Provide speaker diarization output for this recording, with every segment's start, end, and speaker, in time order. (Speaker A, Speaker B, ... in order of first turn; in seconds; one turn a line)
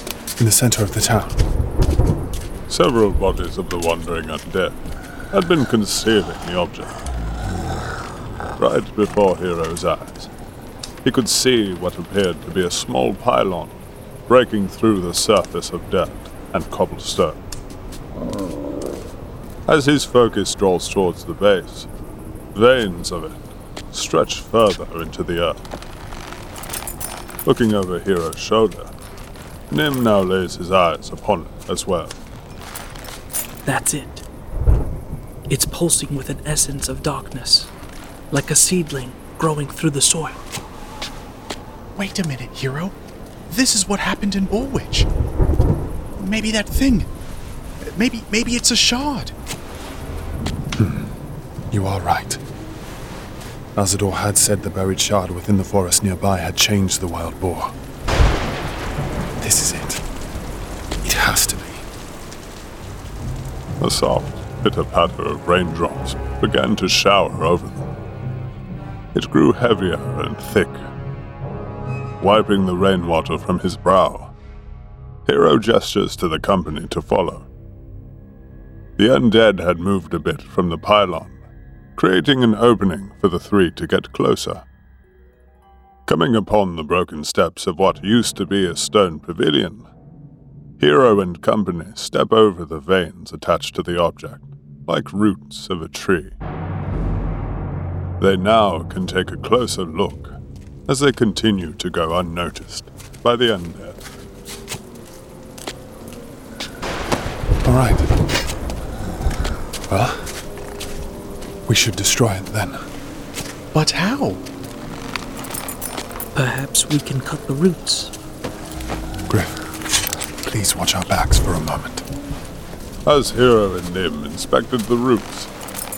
Speaker A: 0.4-1.4
Speaker B: 2.7-4.8
Speaker B: 5.3-7.0
Speaker B: 8.6-10.3
Speaker B: 11.0-17.4
Speaker B: 19.7-21.9
Speaker B: 22.5-25.6
Speaker B: 27.4-28.9
Speaker B: 29.7-32.2
Speaker C: 33.6-34.2
Speaker C: 35.5-37.7
Speaker C: 38.3-40.4
Speaker D: 41.9-42.9
Speaker D: 43.5-45.1
Speaker D: 46.2-47.1
Speaker D: 47.8-49.3
Speaker A: 50.8-51.1
Speaker A: 51.7-52.4
Speaker A: 53.8-57.7
Speaker A: 59.4-60.0
Speaker A: 61.0-61.8
Speaker B: 63.8-67.9
Speaker B: 69.1-70.8
Speaker B: 72.2-74.3
Speaker B: 75.2-77.5
Speaker B: 79.0-81.4
Speaker B: 82.0-84.6
Speaker B: 86.1-89.9
Speaker B: 90.8-96.3
Speaker B: 98.2-104.0
Speaker A: 107.6-108.1
Speaker A: 109.9-110.3
Speaker A: 111.7-112.8
Speaker D: 113.7-114.4
Speaker C: 116.3-118.1
Speaker A: 119.3-119.6
Speaker A: 120.4-122.0
Speaker B: 123.0-125.5